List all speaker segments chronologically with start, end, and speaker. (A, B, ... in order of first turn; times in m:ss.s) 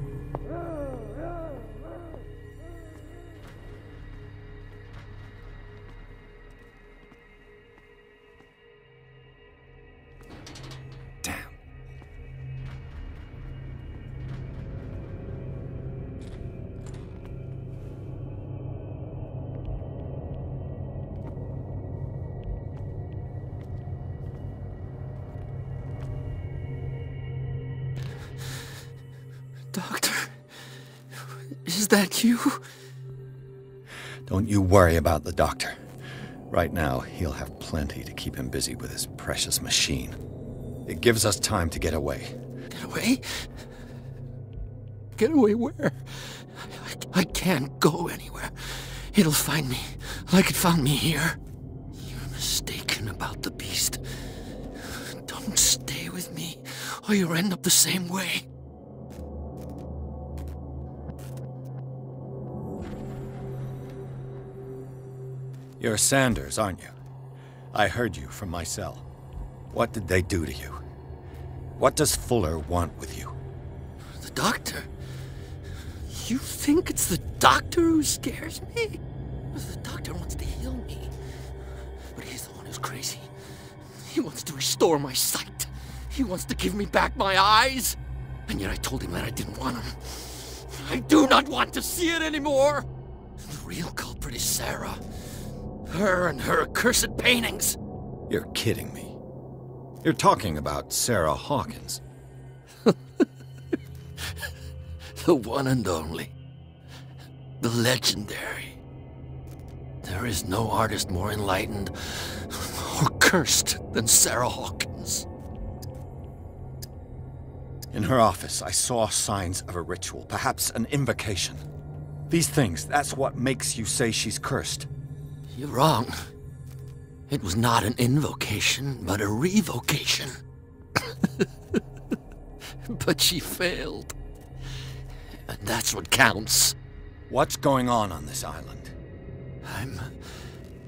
0:11.2-0:11.5 A
0:29.7-0:30.5 B
0:31.1-0:32.6 B
0:34.3-0:35.8 A
0:36.5-0:40.2 A
0:40.8-0:42.3 A
0:42.7-0:43.5 B
0:45.2-0:51.4 B
0:51.9-0:58.4 B
1:05.8-1:07.0 A
1:07.7-1:09.0 A
1:09.7-1:10.8 A
1:11.8-1:13.3 A
1:14.1-1:14.9 B
1:16.1-1:19.0 B
1:19.5-1:21.1 B
1:22.1-1:23.3 B
1:23.8-1:32.8 B
1:33.4-1:37.8 B
1:38.3-1:39.2 A
1:40.0-1:42.0 A
1:42.8-1:43.2 B
1:45.1-1:46.3 B
1:47.6-1:48.8 B
1:50.0-1:55.2 B
1:57.9-2:01.6 A
2:02.3-2:04.9 A
2:05.5-2:06.3 B
2:07.3-2:10.4 B
2:11.0-2:11.8 B
2:12.8-2:14.1 B
2:15.5-2:16.7 B
2:17.3-2:18.9 A
2:19.6-2:20.4 B